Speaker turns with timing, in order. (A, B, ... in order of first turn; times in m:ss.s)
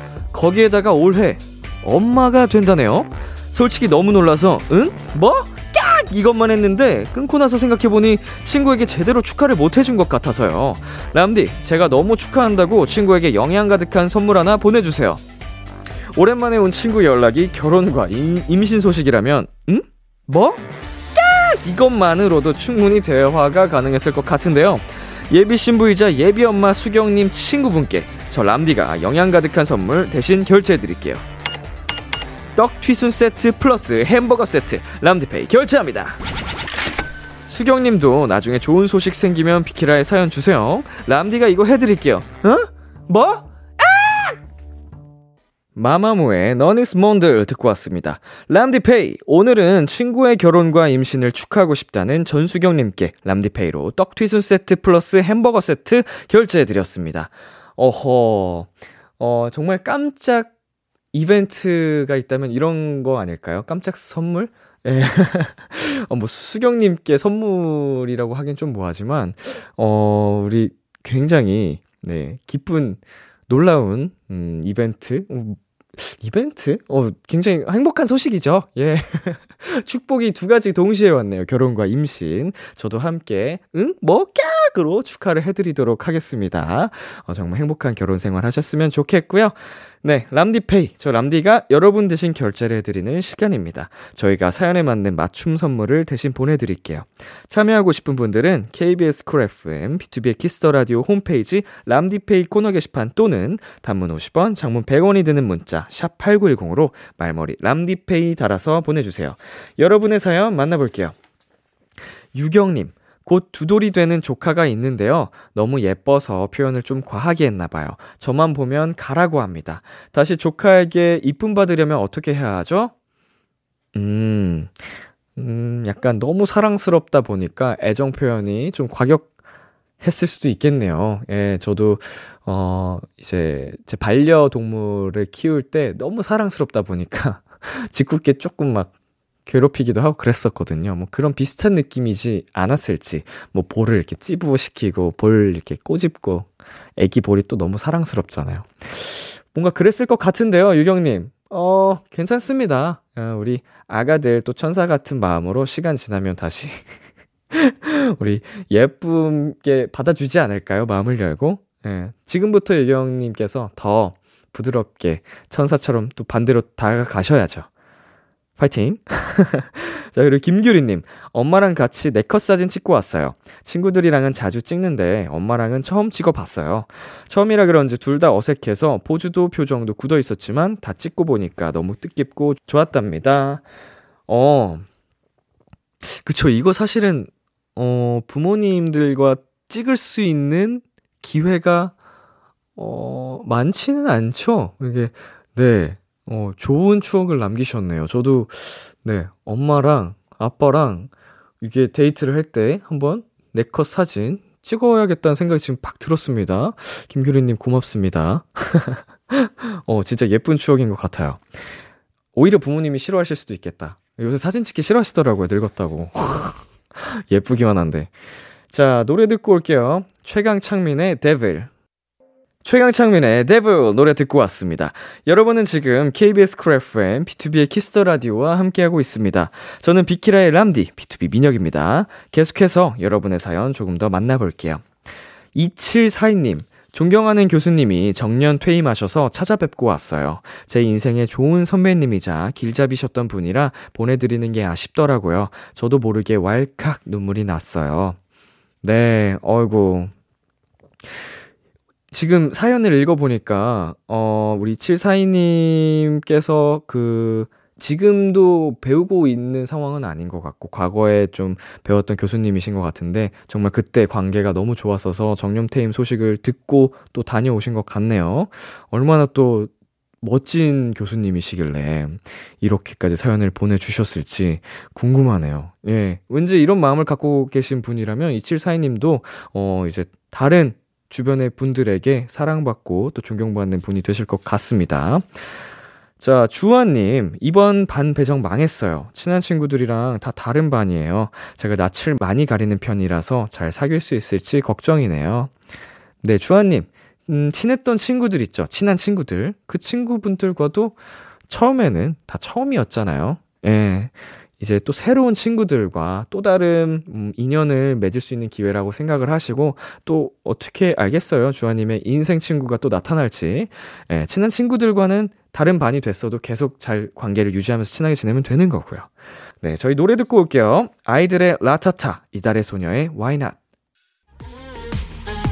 0:00.3-0:15.2 A
0:16.1-0:20.6 A
0:21.2-0:31.2 A
0:32.6-0:36.2 A
0:37.5-0:44.3 A
0:45.8-1:00.5 A
1:01.1-1:51.1 A
1:52.3-2:02.9 A
2:03.9-2:09.3 A
2:10.0-2:18.9 A
2:19.5-2:36.9 A
2:37.5-2:47.7 A
2:48.6-3:03.7 A
3:04.3-3:04.8 A
3:06.0-3:12.0 A
3:12.8-3:31.5 A
3:32.3-3:38.1 A
3:38.7-3:41.7 A
3:42.6-3:54.9 A
3:55.5-4:08.2 A
4:08.8-4:10.1 A
4:12.1-4:29.7 A
4:30.2-4:45.4 A
4:46.2-4:55.6 A
4:56.2-5:23.6 A